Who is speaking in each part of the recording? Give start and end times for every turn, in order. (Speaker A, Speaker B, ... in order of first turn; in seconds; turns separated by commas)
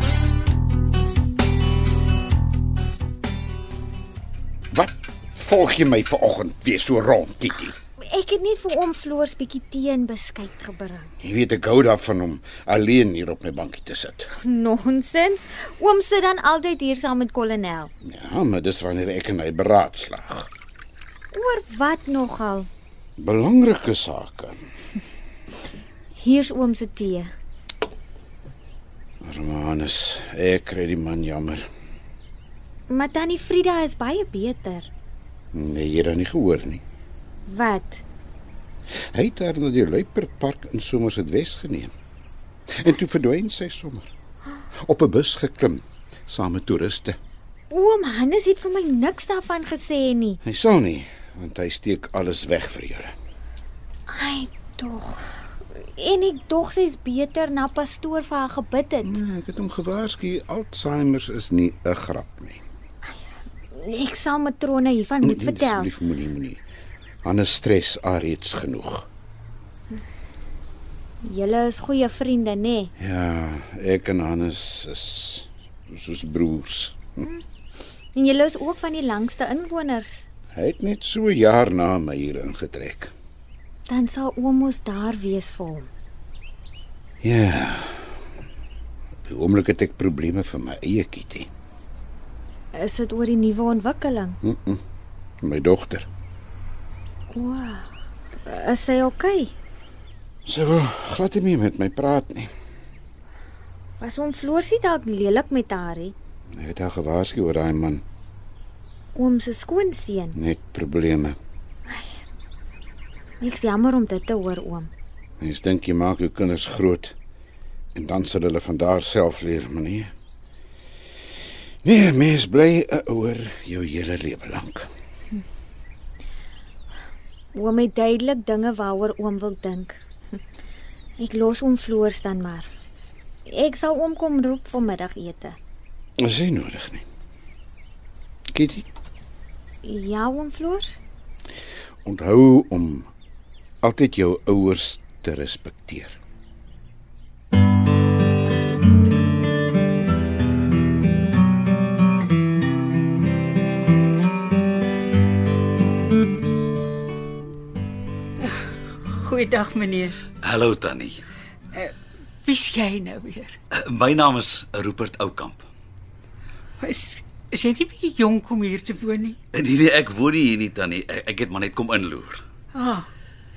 Speaker A: 4.7-7.8, Speaker B: 8.0-11.1, Speaker A: 11.2-14.3, Speaker B: 14.4-17.9, Speaker A: 18.0-20.5, Speaker B: 21.3-22.7, Speaker A: 23.2-24.6, Speaker B: 26.1-27.3, Speaker A: 29.2-31.6, Speaker B: 32.9-34.9, Speaker A: 35.5-36.8, Speaker B: 37.5-38.0, Speaker A: 39.1-41.9, Speaker A: 42.8-44.1, Speaker A: 44.9-47.2, Speaker B: 47.7-50.4, Speaker A: 50.4-53.1, Speaker B: 54.1-55.2, Speaker B: 55.8-59.1, Speaker A: 59.0-62.6, Speaker B: 63.7-65.9, Speaker A: 65.2-66.6, Speaker A: 67.2-69.0, Speaker B: 71.2-72.9, Speaker A: 73.0-77.2, Speaker B: 78.1-80.2, Speaker A: 80.5-83.1, Speaker B: 83.9-85.9, Speaker A: 87.2-88.0, Speaker A: 89.3-91.5, Speaker B: 92.7-94.4, Speaker A: 94.4-94.8, Speaker A: 95.4-96.1, Speaker B: 97.3-97.9, Speaker B: 98.4-99.5, Speaker A: 100.4-102.5, Speaker B: 104.0-106.1, Speaker A: 106.5-108.0, Speaker B: 109.1-110.3, Speaker A: 110.3-111.4, Speaker B: 113.4-114.9, Speaker A: 115.4-117.1, Speaker A: 117.9-120.1, Speaker A: 121.8-124.9, Speaker B: 127.5-130.0, Speaker B: 131.2-132.7, Speaker B: 133.4-135.6, Speaker A: 136.2-137.0, Speaker A: 138.5-138.8, Speaker B: 139.8-140.9, Speaker A: 142.0-143.1, Speaker A: 143.8-146.2, Speaker C: 158.4-160.2, Speaker D: 160.4-161.2, Speaker C: 161.7-163.5, Speaker D: 163.7-165.7, Speaker C: 166.8-169.4, Speaker D: 169.5-172.4, Speaker C: 172.7-173.1